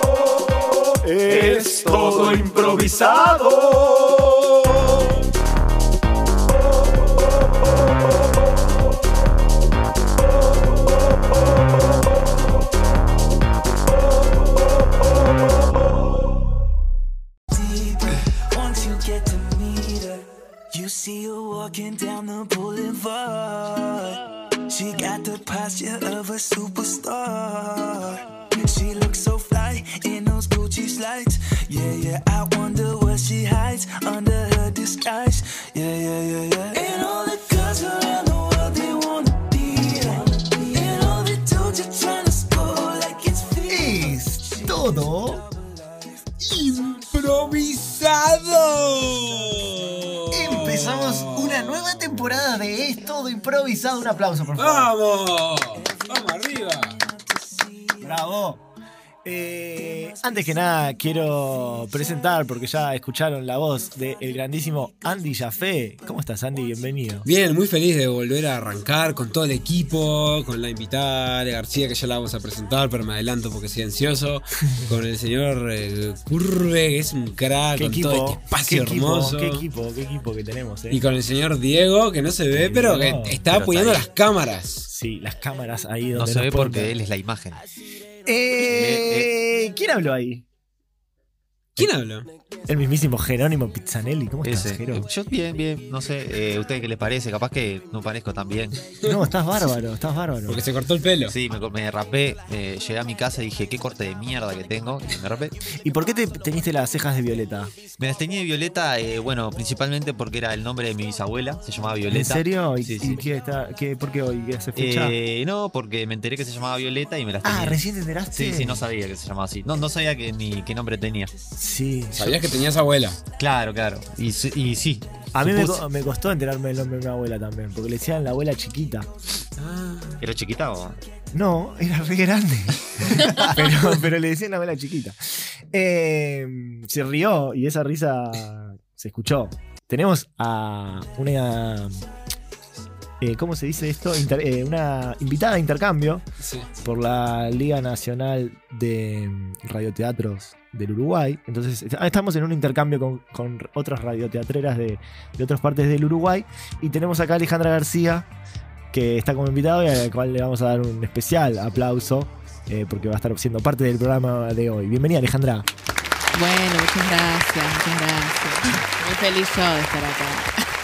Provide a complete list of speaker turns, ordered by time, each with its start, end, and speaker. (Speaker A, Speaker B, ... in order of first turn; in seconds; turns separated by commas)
Speaker A: 1.0-4.5, Speaker B: 17.5-46.3, Speaker A: 43.6-45.5, Speaker C: 46.4-51.8, Speaker A: 50.3-55.0, Speaker C: 54.6-57.0, Speaker B: 55.7-58.3, Speaker A: 58.0-58.6, Speaker A: 59.2-67.3, Speaker B: 59.9-60.8, Speaker B: 61.6-61.9, Speaker C: 67.2-79.6, Speaker A: 77.8-81.0, Speaker C: 80.9-84.9, Speaker A: 82.5-83.6, Speaker D: 83.5-84.1, Speaker A: 84.9-87.0, Speaker D: 86.2-87.6, Speaker A: 88.3-90.5, Speaker D: 88.6-89.3, Speaker C: 91.8-92.3, Speaker A: 92.7-95.1, Speaker D: 94.4-98.8, Speaker A: 99.0-100.7, Speaker C: 100.5-101.4, Speaker D: 101.3-105.6, Speaker A: 105.8-107.8, Speaker D: 108.0-113.2, Speaker A: 112.1-115.2, Speaker D: 114.8-117.8, Speaker A: 117.4-118.9, Speaker D: 118.3-121.3, Speaker A: 121.6-122.4, Speaker C: 122.1-123.2, Speaker D: 123.4-125.8, Speaker A: 125.3-129.1, Speaker C: 129.6-130.2, Speaker D: 130.2-131.0, Speaker A: 131.3-135.2, Speaker D: 133.2-133.5, Speaker C: 133.6-133.8, Speaker A: 135.7-142.0, Speaker A: 143.2-146.2, Speaker C: 146.4-146.7, Speaker A: 146.8-158.3, Speaker A: 158.9-165.7, Speaker E: 166.3-170.5